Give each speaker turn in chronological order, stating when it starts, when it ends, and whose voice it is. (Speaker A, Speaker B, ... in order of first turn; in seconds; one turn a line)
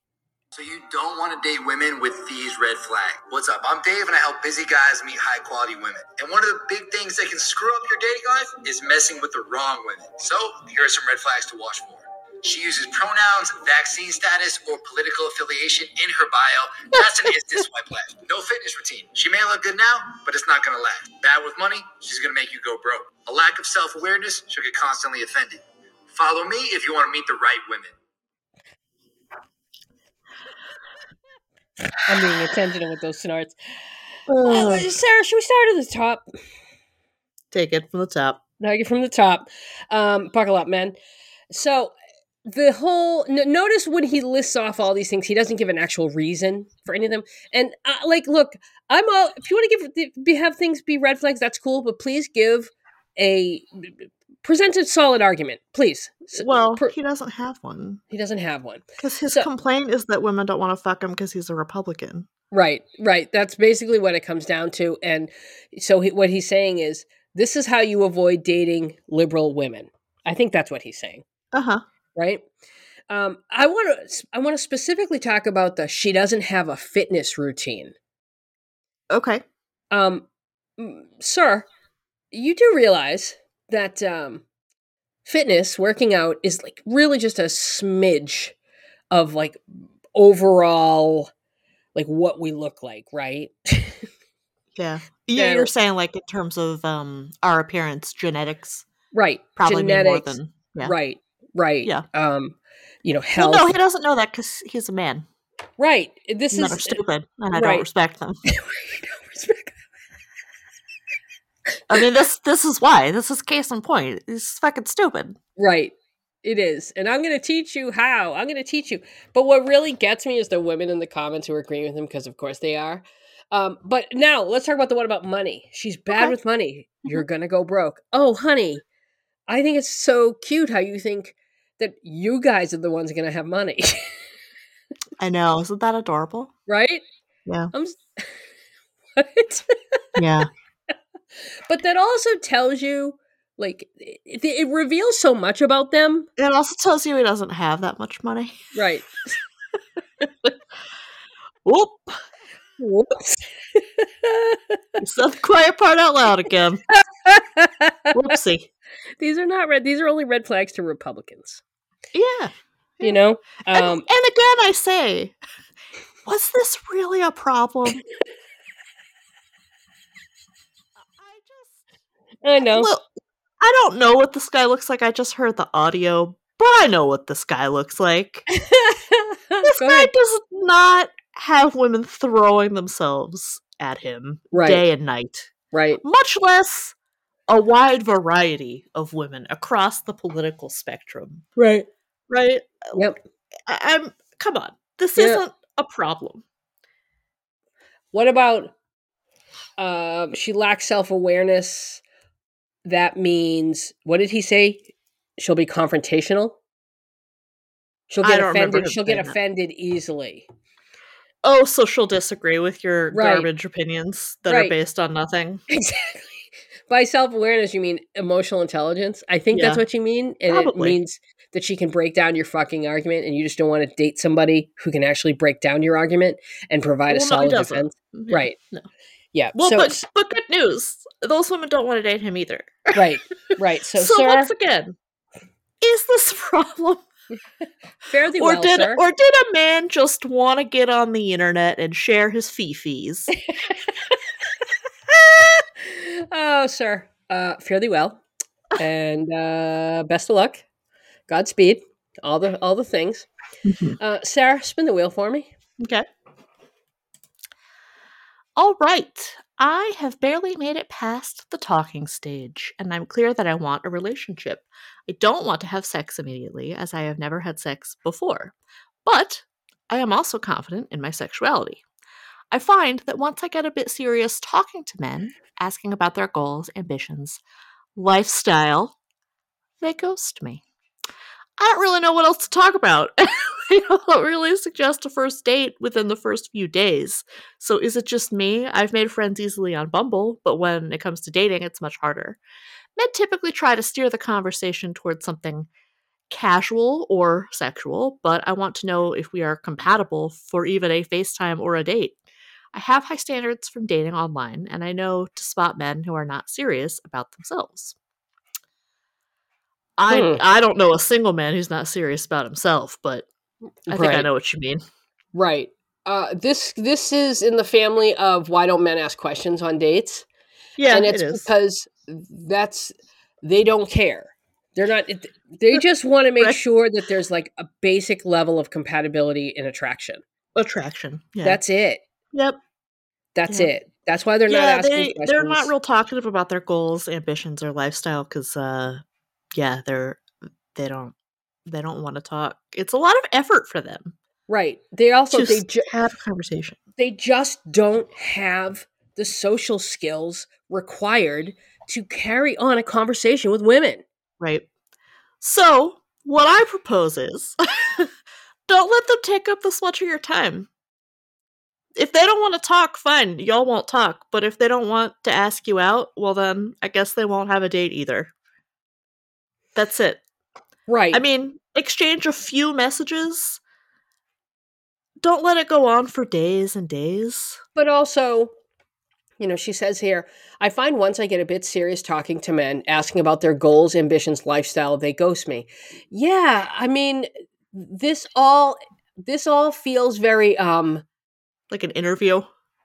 Speaker A: 0.5-27.9
Speaker B: 32.1-33.6
Speaker C: 34.3-34.9
Speaker B: 34.4-36.2
Speaker C: 37.5-38.4
Speaker B: 38.6-41.0
Speaker B: 41.5-42.0
Speaker B: 42.5-56.9
Speaker C: 56.4-58.0
Speaker B: 58.1-59.5
Speaker C: 59.0-62.3
Speaker B: 62.5-71.2
Speaker C: 71.5-71.8
Speaker B: 72.2-72.4
Speaker B: 73.1-78.0
Speaker C: 79.1-79.4
Speaker B: 79.9-80.3
Speaker B: 80.8-81.7
Speaker B: 82.3-84.4
Speaker B: 85.2-88.6
Speaker B: 89.1-89.6
Speaker B: 90.1-91.3
Speaker B: 92.0-94.1
Speaker C: 94.8-98.8
Speaker B: 95.3-95.7
Speaker B: 99.1-103.8
Speaker C: 99.6-101.0
Speaker C: 103.4-105.2
Speaker B: 105.8-107.0
Speaker C: 106.5-108.4
Speaker B: 107.5-107.9
Speaker B: 108.5-109.8
Speaker C: 111.9-115.4
Speaker B: 115.6-128.8
Speaker B: 129.5-134.1
Speaker C: 135.2-136.5
Speaker B: 136.7-137.0
Speaker C: 137.5-137.7
Speaker B: 137.7-138.4
Speaker B: 139.2-140.0
Speaker C: 140.2-140.5
Speaker B: 141.7-146.3
Speaker C: 146.4-148.8
Speaker B: 148.8-149.3
Speaker C: 151.7-152.2
Speaker B: 152.8-154.8
Speaker C: 155.0-156.8
Speaker B: 157.2-158.1
Speaker C: 158.1-158.7
Speaker B: 159.2-161.6
Speaker C: 162.1-163.2
Speaker B: 163.0-164.1
Speaker C: 163.7-165.4
Speaker C: 166.3-168.0
Speaker C: 171.2-171.8
Speaker B: 172.4-172.9
Speaker C: 172.6-173.1
Speaker C: 173.6-178.5
Speaker B: 178.6-180.1
Speaker C: 179.6-185.5
Speaker B: 184.5-184.8
Speaker B: 185.7-186.0
Speaker C: 186.0-186.9
Speaker C: 187.5-191.5
Speaker B: 191.6-191.9
Speaker C: 192.3-193.0
Speaker C: 193.7-196.4
Speaker B: 195.2-195.4
Speaker B: 198.1-198.7
Speaker B: 199.8-202.0
Speaker B: 202.8-206.6
Speaker B: 208.1-210.5
Speaker C: 208.2-209.4
Speaker C: 211.4-215.6
Speaker B: 213.1-213.5
Speaker B: 214.5-214.8
Speaker B: 215.7-228.6
Speaker C: 219.5-219.8
Speaker C: 220.5-221.0
Speaker C: 227.1-228.9
Speaker B: 229.3-230.0
Speaker C: 229.6-233.1
Speaker B: 232.9-234.5
Speaker C: 234.0-235.0
Speaker C: 235.8-237.0
Speaker B: 238.0-239.0
Speaker C: 238.4-243.3
Speaker B: 243.6-244.2
Speaker B: 245.1-248.2
Speaker B: 248.8-250.6
Speaker B: 251.3-253.3
Speaker C: 253.7-254.0
Speaker B: 254.0-255.5
Speaker C: 255.8-256.1
Speaker C: 258.6-268.5
Speaker C: 269.1-271.8
Speaker C: 272.5-277.4
Speaker C: 278.0-279.0
Speaker C: 279.8-280.6
Speaker C: 281.6-292.4
Speaker C: 293.0-295.7
Speaker C: 296.3-302.2
Speaker C: 302.7-308.0
Speaker C: 310.0-313.3
Speaker B: 310.1-310.4
Speaker B: 313.9-314.3
Speaker C: 313.9-314.8
Speaker B: 315.4-320.3
Speaker C: 320.8-321.5
Speaker B: 320.9-322.9
Speaker B: 323.4-330.2
Speaker C: 330.6-331.6
Speaker B: 331.4-332.0
Speaker B: 333.4-335.7
Speaker C: 334.5-339.0
Speaker C: 339.6-341.1
Speaker C: 341.7-344.1
Speaker B: 344.5-345.9
Speaker C: 345.3-346.8
Speaker B: 347.0-354.0
Speaker C: 354.4-354.7
Speaker C: 355.4-358.1
Speaker C: 358.7-360.7
Speaker C: 362.0-368.3
Speaker C: 369.8-370.2
Speaker B: 370.9-371.2
Speaker C: 371.1-373.6
Speaker C: 375.2-377.6
Speaker B: 377.8-378.5
Speaker B: 379.4-391.0
Speaker C: 391.7-392.5